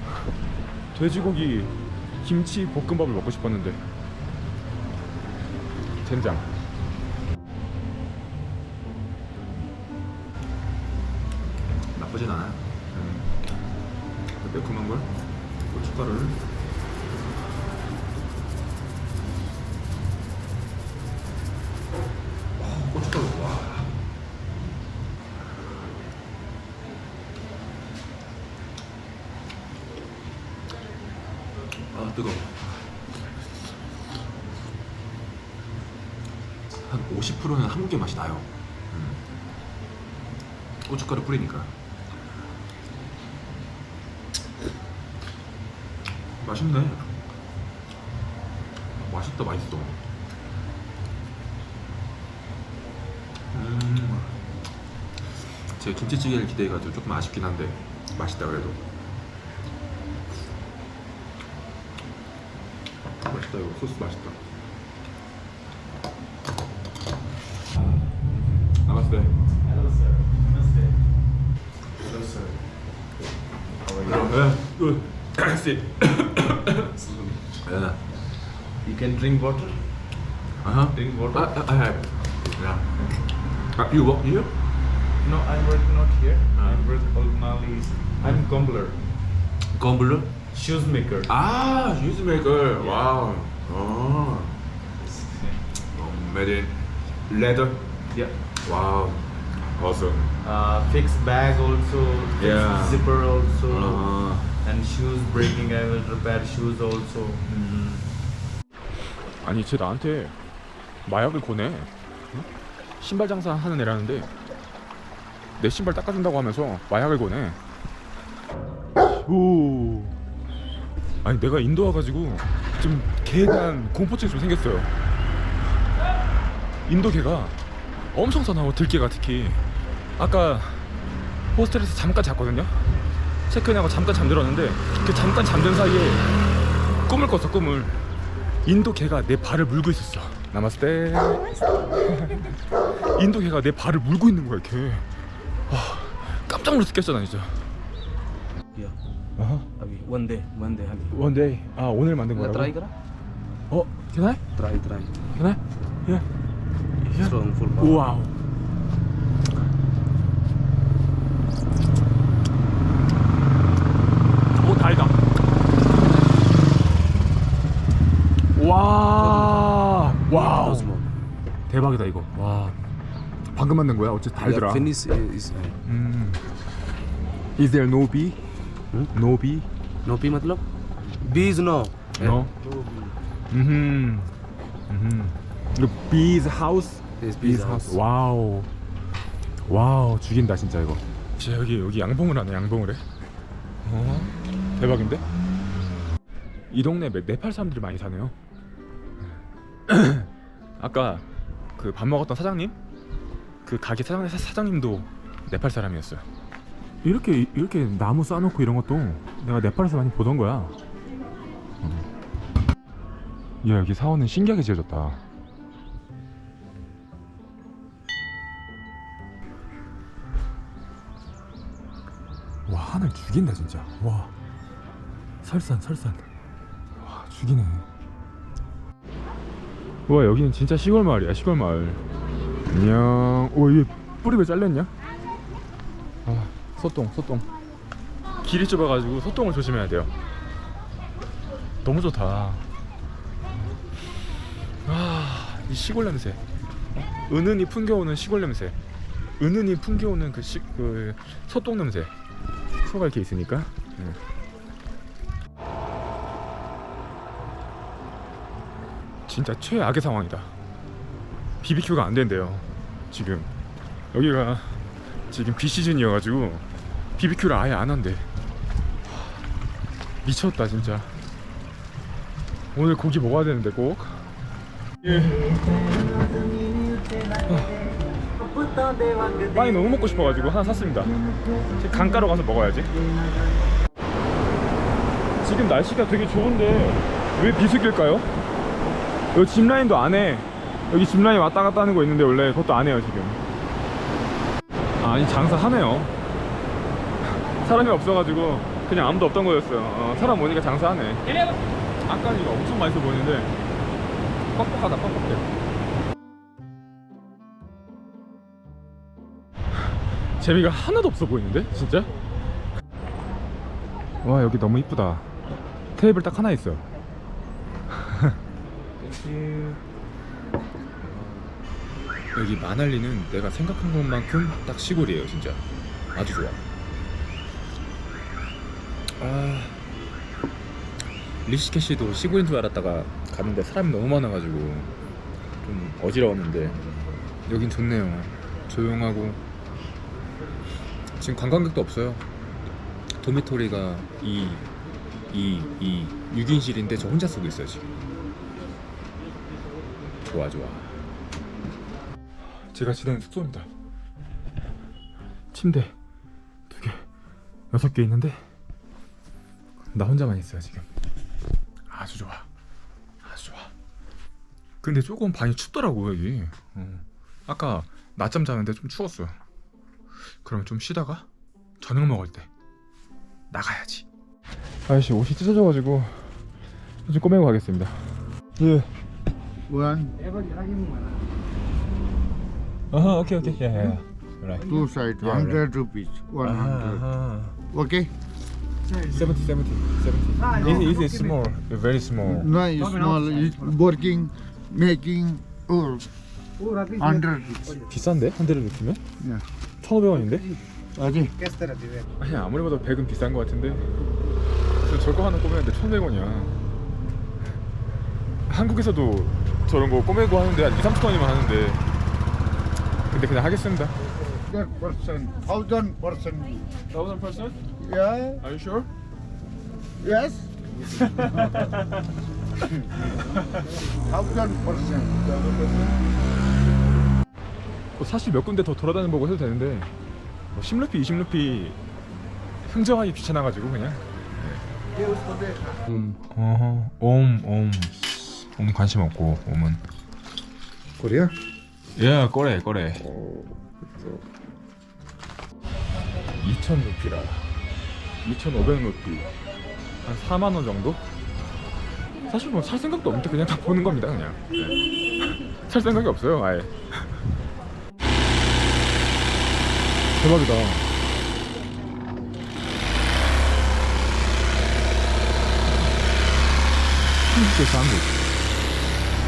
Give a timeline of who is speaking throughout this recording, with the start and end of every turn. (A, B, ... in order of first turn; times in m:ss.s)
0:00.9-0:03.8 A
0:06.0-0:06.5 A
0:11.9-0:13.3 A
0:14.4-0:15.1 A
0:15.7-0:16.4 A
0:22.6-0:23.9 A
0:31.9-0:32.9 A
0:36.7-0:39.2 A
0:40.8-0:41.7 A
0:46.4-0:47.1 A
0:49.0-0:50.0 A
0:53.5-0:54.3 A
0:55.7-0:58.8 A
1:03.2-1:04.4 A
1:08.3-1:09.3 A
1:09.6-1:11.0 B
1:12.1-1:12.5 C
1:13.9-1:16.9 A
1:17.0-1:17.3 C
1:17.6-1:18.0 A
1:18.8-1:19.9 B
1:20.6-1:22.8 A
1:20.9-1:21.6 B
1:23.8-1:24.5 A
1:25.2-1:29.0 B
1:26.6-1:26.8 A
1:29.8-1:30.3 A
1:30.4-1:31.3 B
1:31.2-1:34.5 A
1:35.1-1:35.6 B
1:35.9-1:36.8 A
1:37.3-1:37.9 A
1:38.1-1:38.4 B
1:38.6-1:40.3 A
1:40.4-1:48.1 B
1:42.4-1:43.1 A
1:43.7-1:44.5 A
1:49.4-1:50.3 A
1:51.1-1:52.4 A
1:53.0-1:54.3 A
1:55.6-1:57.6 A
1:59.0-2:00.2 A
2:01.2-2:04.9 A
2:06.9-2:07.6 A
2:08.1-2:09.6 A
2:10.2-2:10.9 A
2:11.5-2:12.8 A
2:13.5-2:16.3 A
2:17.0-2:18.0 A
2:18.6-2:22.5 A
2:23.0-2:25.1 A
2:25.7-2:27.6 A
2:29.4-2:29.7 A
2:29.8-2:31.1 C
2:31.1-2:32.7 A
2:32.3-2:32.9 C
2:33.7-2:34.4 A
2:34.6-2:35.1 C
2:35.3-2:36.2 A
2:37.0-2:38.3 A
2:37.1-2:38.1 C
2:44.6-2:45.2 A
2:48.6-2:50.9 A
2:49.1-2:51.1 C
2:51.7-2:52.8 A
2:53.5-2:54.9 A
2:54.4-2:55.8 C
2:55.8-2:56.4 A
2:57.6-2:58.4 A
2:59.1-2:59.7 A
3:00.0-3:03.2 C
3:02.2-3:02.5 A
3:03.5-3:04.3 A
3:04.9-3:08.7 A
3:07.2-3:08.0 C
3:09.6-3:13.0 A
3:13.8-3:15.2 A
3:16.7-3:18.4 A
3:19.9-3:21.2 A
3:21.8-3:22.8 A
3:23.6-3:26.2 A
3:27.0-3:30.8 A
3:33.6-3:35.2 A
3:42.7-3:44.3 A
3:45.4-3:46.3 A
3:47.0-3:47.8 A
3:50.1-3:52.0 A
3:52.7-3:54.9 A
3:56.2-3:57.5 A
3:58.4-4:00.1 A
4:01.8-4:02.6 A
4:04.8-4:06.4 A
4:07.0-4:08.8 A
4:09.4-4:12.1 A
4:12.8-4:14.2 A
4:19.3-4:20.5 A
4:21.6-4:23.5 A
4:24.1-4:24.8 A
4:25.3-4:26.6 A
4:27.2-4:28.2 A
4:30.2-4:31.1 A
4:32.7-4:34.3 A
4:35.0-4:35.6 A
4:36.4-4:37.0 C
4:37.4-4:37.8 A
4:39.3-4:41.2 A
4:41.8-4:42.9 A
4:45.4-4:48.3 A
4:49.3-4:53.4 A
4:55.0-4:56.1 A
4:57.6-5:01.5 A
5:02.1-5:03.5 A
5:04.5-5:05.5 A
5:10.4-5:12.1 A
5:14.2-5:15.3 A
5:16.0-5:16.8 A
5:17.9-5:18.4 A
5:19.0-5:19.8 C
5:19.2-5:19.7 A
5:22.3-5:25.6 A
5:26.1-5:26.6 A
5:29.2-5:29.8 A
5:31.4-5:34.9 A
5:35.6-5:36.8 A
5:37.4-5:39.4 A
5:41.2-5:42.2 A
5:43.2-5:44.7 A
5:45.3-5:47.9 A
5:50.2-5:50.9 A
5:52.6-5:53.7 A
5:55.5-5:55.9 A
5:56.7-5:57.0 A
5:57.7-5:58.4 A
5:59.9-6:00.8 A
6:01.9-6:02.5 A
6:03.2-6:03.7 A
6:04.8-6:09.4 A
6:10.4-6:11.3 A
6:11.8-6:12.5 A
6:13.5-6:14.1 A
6:14.9-6:16.3 A
6:17.1-6:18.0 A
6:18.6-6:18.9 A
6:19.7-6:20.2 D
6:22.9-6:25.7 A
6:24.7-6:27.0 D
6:26.4-6:27.6 A
6:27.7-6:28.1 D
6:29.0-6:32.6 A
6:32.5-6:36.1 D
6:36.8-6:37.8 D
6:37.7-6:39.0 A
6:39.8-6:40.5 A
6:41.0-6:42.0 D
6:42.2-6:43.9 A
6:44.8-6:46.6 A
6:48.5-6:51.8 A
6:53.1-6:53.9 A
6:54.5-6:56.6 D
6:56.9-6:57.6 A
6:57.8-6:58.4 D
6:58.4-6:58.9 A
7:00.0-7:00.5 D
7:01.0-7:01.8 A
7:03.2-7:03.6 A
7:03.9-7:05.8 D
7:08.0-7:09.9 A
7:10.5-7:11.8 A
7:12.6-7:14.6 A
7:15.1-7:15.6 D
7:15.9-7:16.2 C
7:16.3-7:19.8 A
7:21.0-7:21.3 C
7:22.0-7:24.2 A
7:26.4-7:27.4 A
7:28.2-7:29.3 A
7:30.0-7:31.0 A
7:32.3-7:37.1 A
7:40.2-7:40.9 A
7:47.2-7:48.2 A